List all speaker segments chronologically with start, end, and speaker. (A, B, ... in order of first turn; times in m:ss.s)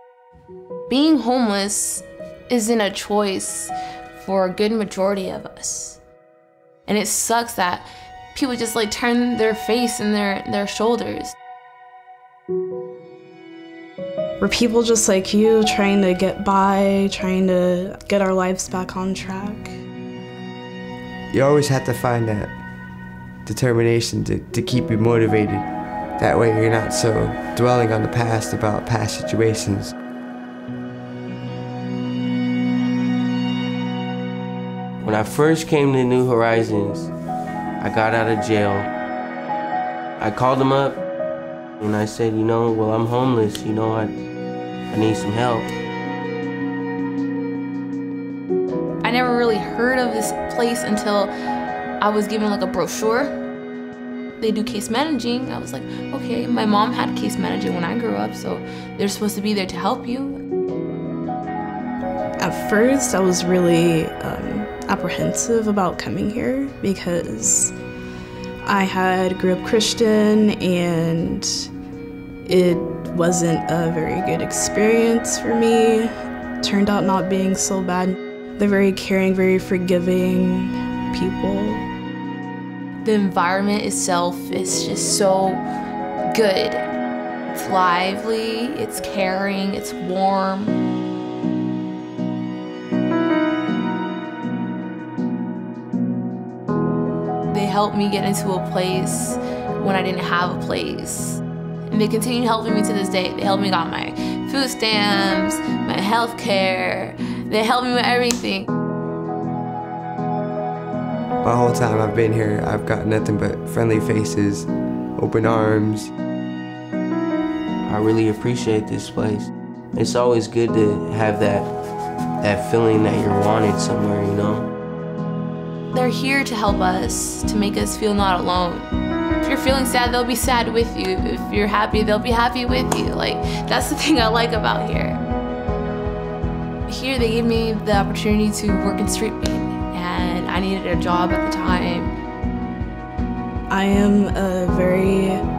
0:00.9-0:06.0 A
0:06.9-0:11.4 A
0:14.4-0:19.7 B
0:21.3-0:22.5 C
0:23.4-0:25.7 C
0:26.2-0:29.9 C
0:35.0-0:37.1 D
0:37.8-0:38.9 D
0:40.2-0:41.0 D
0:41.8-0:44.2 D
0:44.9-0:45.7 D
0:49.0-0:51.3 A
0:52.0-0:53.3 A
0:54.4-1:00.4 A
1:02.4-1:07.7 B
1:08.6-1:11.7 B
1:12.5-1:16.1 B
1:16.6-1:21.9 B
1:23.0-1:25.6 A
1:26.3-1:26.9 A
1:27.5-1:30.8 A
1:37.5-1:48.7 A
1:51.4-1:56.1 C
1:57.9-2:01.7 D
2:02.4-2:04.7 D
2:05.9-2:08.9 A
2:09.4-2:15.2 A
2:16.9-2:22.1 A
2:23.7-2:25.4 B